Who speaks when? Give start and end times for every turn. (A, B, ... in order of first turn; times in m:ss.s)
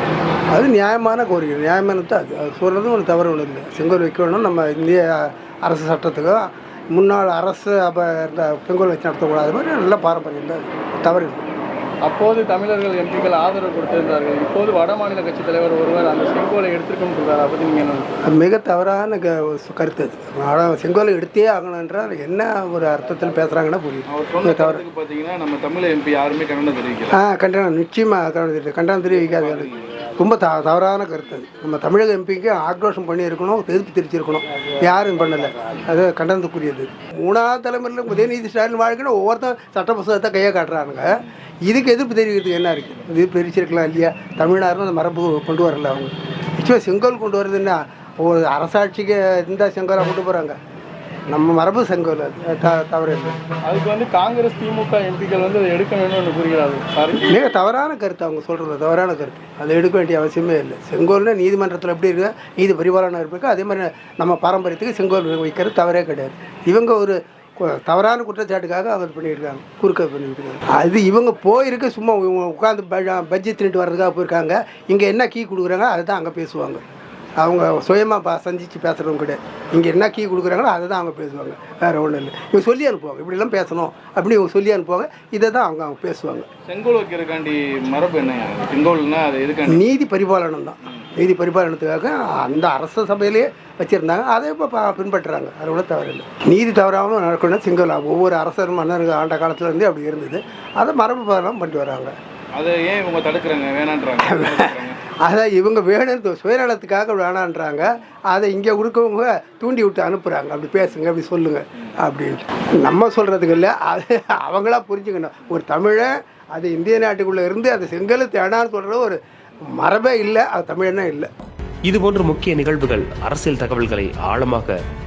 0:00.5-0:11.4 A
0:12.0-0:18.1 B
0:18.3-0:24.8 A
0:24.1-0:27.2 C
0:27.1-0:50.6 A
0:29.2-0:29.9 C
0:51.3-0:53.4 A
0:53.7-0:57.3 B
0:57.3-1:16.8 A
1:17.4-1:26.5 A
1:26.6-1:29.8 C
1:29.6-1:42.1 A
1:42.6-1:45.0 C
1:44.2-1:59.2 A
1:59.8-2:01.3 A
2:01.9-2:04.8 D